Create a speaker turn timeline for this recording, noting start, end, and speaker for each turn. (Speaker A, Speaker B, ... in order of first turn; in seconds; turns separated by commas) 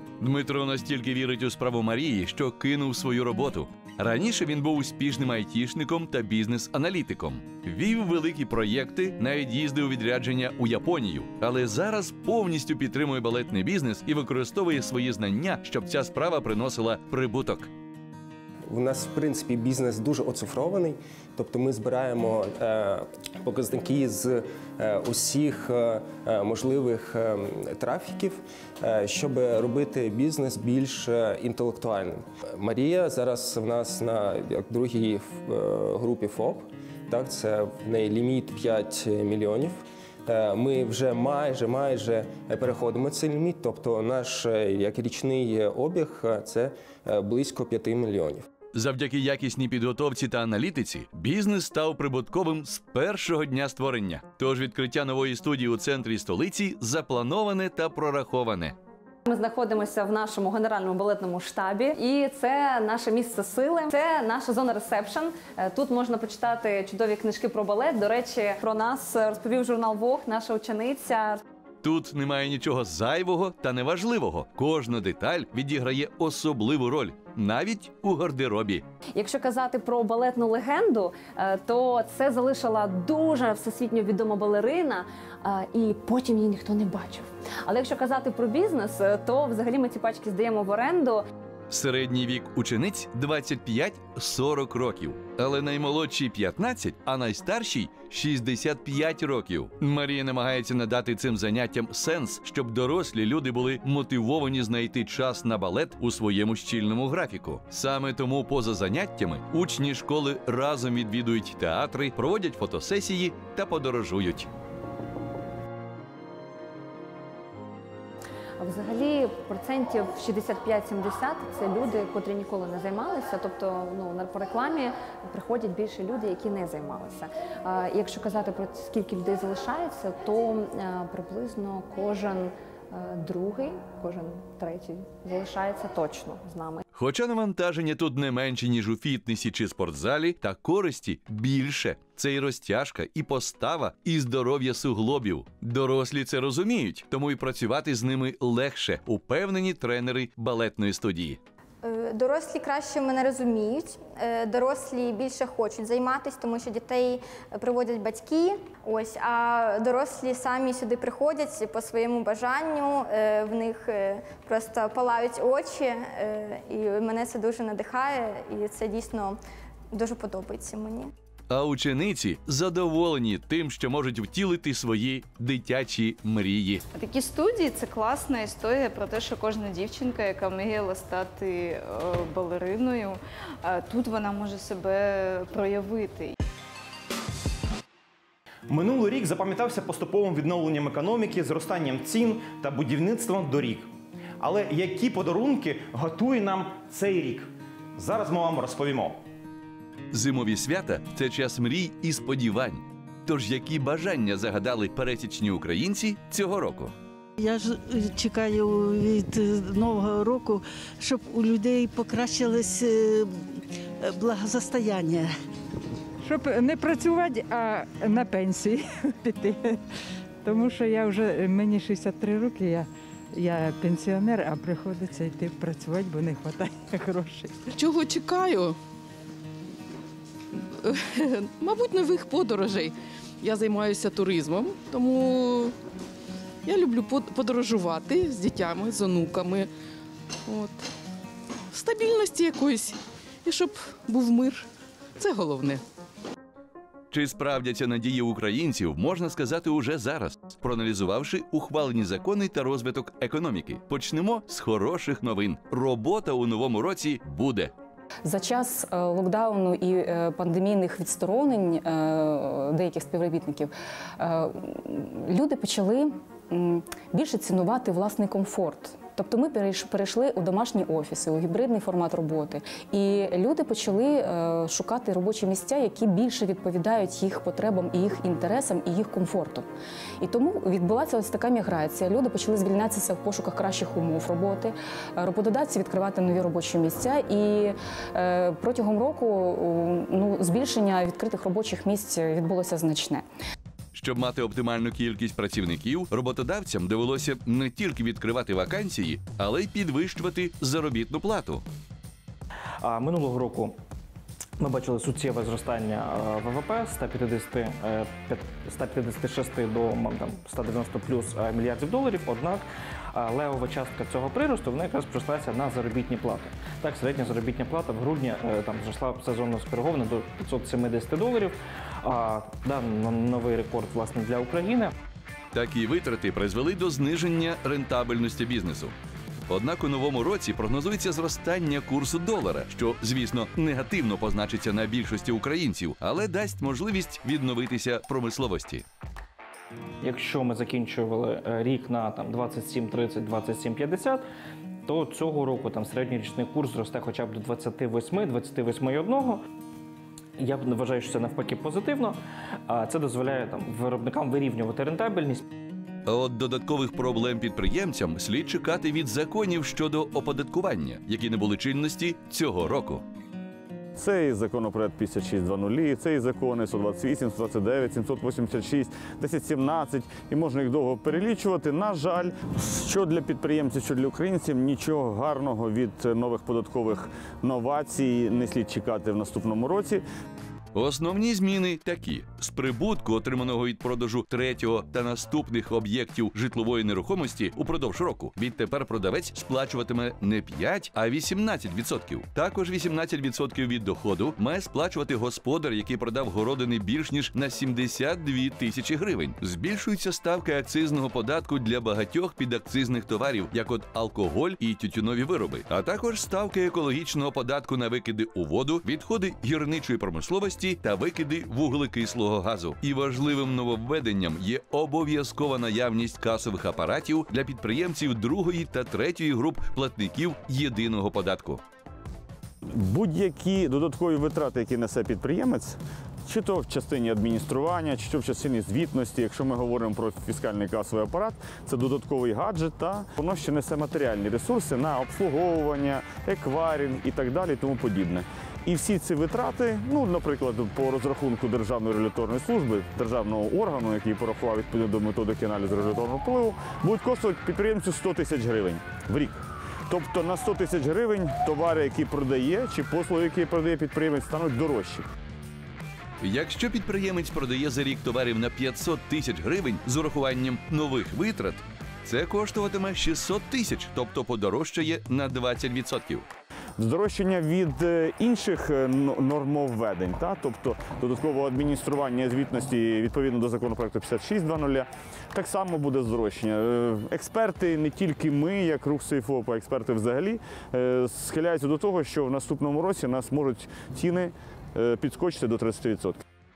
Speaker A: 0.2-17.7, Speaker B: 18.7-48.5, Speaker A: 48.7-58.8, Speaker C: 59.3-71.4, Speaker A: 71.8-78.8, Speaker C: 79.2-91.2, Speaker A: 91.7-114.5, Speaker C: 118.6-136.8, Speaker A: 136.9-151.4, Speaker D: 151.8-169.4, Speaker D: 169.9-171.1, Speaker A: 171.5-176.8, Speaker E: 176.9-186.3, Speaker A: 200.1-206.9, Speaker F: 207.4-215.3, Speaker G: 216.2-219.8, Speaker G: 220.4-227.7, Speaker H: 227.8-228.8, Speaker H: 230.9-235.7, Speaker H: 236.7-239.7, Speaker H: 240.5-240.8, Speaker H: 241.7-243.0, Speaker H: 243.5-244.7, Speaker H: 245.2-245.8, Speaker A: 247.1-257.7, Speaker I: 258.2-279.7, Speaker I: 280.2-293.2, Speaker A: 293.9-301.6, Speaker J: 302.8-303.8, Speaker J: 304.6-324.9, Speaker A: 325.5-328.9, Speaker A: 329.5-338.9, Speaker J: 340.0-344.2, Speaker J: 344.8-349.4, Speaker J: 350.4-355.4, Speaker A: 356.1-363.0, Speaker K: 363.9-380.0, Speaker A: 380.7-421.6, Speaker K: 422.7-455.1, Speaker A: 456.2-466.3, Speaker K: 466.8-486.2